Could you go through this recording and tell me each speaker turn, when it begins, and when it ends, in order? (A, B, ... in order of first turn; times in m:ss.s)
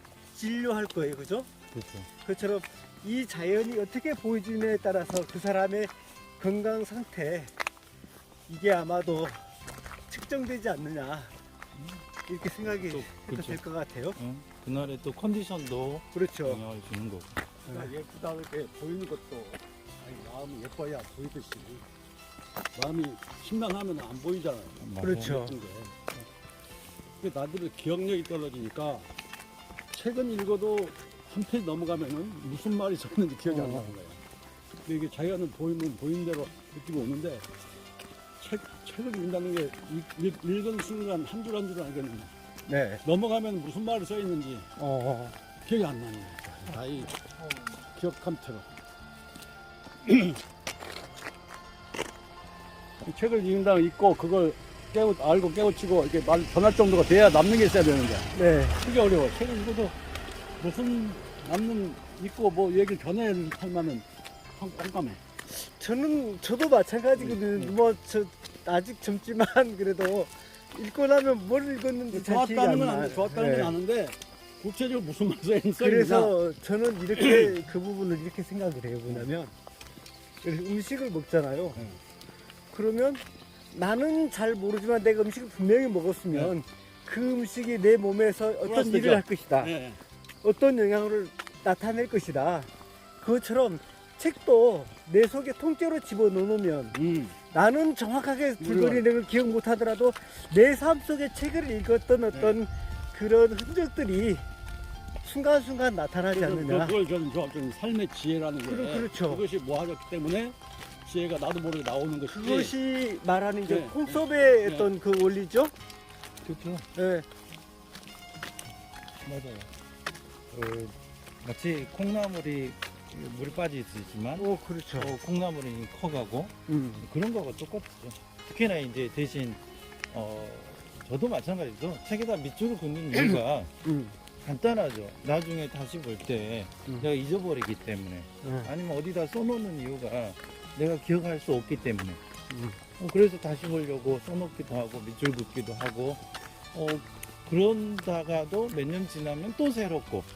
0:00.3-0:01.5 A
0:01.7-0:02.1 B
0:02.2-0:07.5 A
0:08.5-0:09.4 A
0:10.1-0:11.3 A
0:11.7-0:12.0 B
0:12.3-0:14.2 A
0:12.6-0:13.6 B
0:14.2-0:17.4 B
0:16.1-0:16.6 A
0:17.7-0:17.9 A
0:17.7-0:21.8 C
0:22.7-0:26.2 C
0:24.8-0:25.4 B
0:25.0-0:25.6 A
0:27.2-0:29.1 C
0:29.9-0:34.2 C
0:33.5-0:33.9 A
0:34.8-0:37.4 C
0:38.4-0:42.3 C
0:42.7-0:43.0 A
0:43.0-0:44.7 C
0:44.8-0:45.3 A
0:45.6-0:47.2 C
0:46.8-0:47.9 B
0:47.9-0:48.7 C
0:50.0-0:50.4 C
0:53.0-1:00.0 C
0:58.3-0:58.8 A
1:00.6-1:05.2 C
1:05.5-1:13.7 A
1:07.2-1:07.7 C
1:12.1-1:16.3 C
1:15.8-1:19.5 A
1:17.1-1:17.5 C
1:20.4-1:21.8 A
1:22.7-1:29.7 A
1:28.6-1:30.0 C
1:30.4-1:32.7 A
1:33.2-1:37.0 A
1:36.9-1:37.4 C
1:37.5-1:44.4 A
1:38.6-1:39.0 C
1:42.3-1:42.6 C
1:45.2-1:47.0 A
1:46.3-1:52.7 C
1:48.6-1:49.4 A
1:52.2-1:55.7 A
1:53.6-1:54.9 C
1:56.4-1:56.8 B
1:56.9-1:57.2 A
1:59.2-1:59.7 B
2:00.5-2:13.7 B
2:04.4-2:05.2 A
2:06.7-2:07.0 A
2:13.8-2:14.2 A
2:14.4-2:22.2 B
2:18.4-2:18.7 A
2:22.5-2:22.8 A
2:23.0-2:30.3 B